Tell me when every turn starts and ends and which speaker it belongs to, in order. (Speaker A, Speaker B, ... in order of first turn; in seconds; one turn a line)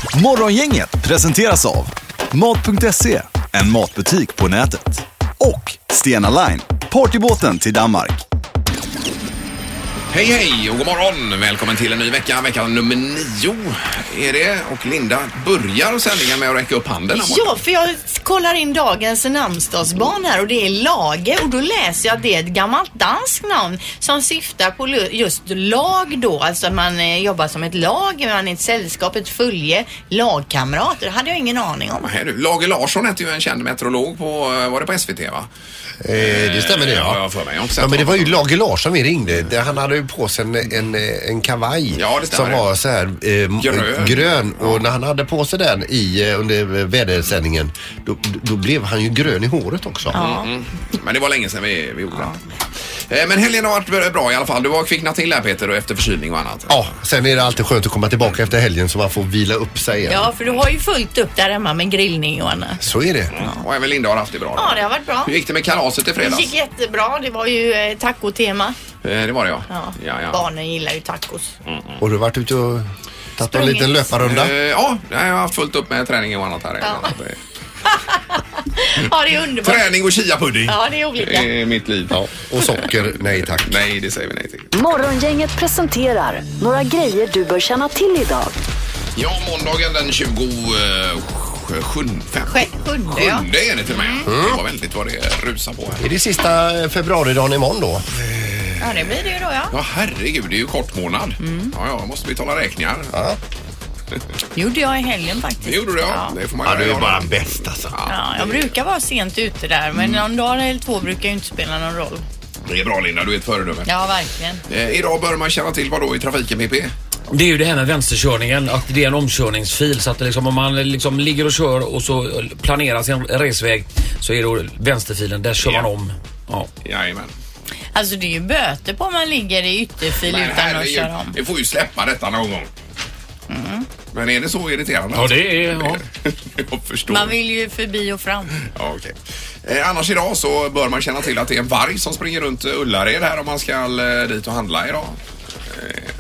Speaker A: 0.1-8.2
Speaker B: 10.1-17.5
Speaker C: 17.1-32.1
Speaker B: 32.0-35.5
Speaker D: 36.0-37.2
Speaker B: 36.1-38.4
Speaker D: 37.8-50.2
Speaker B: 41.9-42.6
Speaker B: 43.6-44.8
Speaker C: 50.1-50.5
Speaker B: 50.1-52.4
Speaker B: 53.1-56.8
Speaker D: 56.7-60.3
Speaker C: 60.0-62.8
Speaker D: 62.8-63.4
Speaker B: 63.4-66.5
Speaker C: 64.5-65.3
Speaker C: 66.2-68.8
Speaker B: 69.0-70.4
Speaker C: 69.7-71.5
Speaker B: 71.7-72.0
Speaker D: 72.0-74.5
Speaker C: 73.5-73.9
Speaker B: 74.2-77.4
Speaker C: 76.8-77.1
Speaker C: 78.6-80.0
Speaker B: 79.6-84.7
Speaker C: 80.7-81.5
Speaker D: 82.1-83.8
Speaker E: 84.7-88.5
Speaker B: 89.2-96.0
Speaker C: 92.5-94.2
Speaker D: 94.2-94.6
Speaker D: 96.0-98.0
Speaker B: 98.2-99.1
Speaker C: 98.8-99.7
Speaker B: 99.7-103.1
Speaker C: 101.4-101.7
Speaker D: 103.1-103.4
Speaker C: 104.5-106.3
Speaker B: 105.6-108.7
Speaker D: 106.6-107.9
Speaker C: 108.0-112.2
Speaker B: 112.7-113.9
Speaker C: 113.9-114.6
Speaker B: 114.7-116.9
Speaker F: 117.3-126.7
Speaker B: 125.6-125.9
Speaker B: 126.8-127.3
Speaker C: 127.9-131.3
Speaker B: 130.2-132.7
Speaker C: 133.5-133.8
Speaker B: 134.1-137.3
Speaker F: 135.1-136.0
Speaker C: 137.1-138.5
Speaker B: 138.6-145.2
Speaker B: 145.7-146.1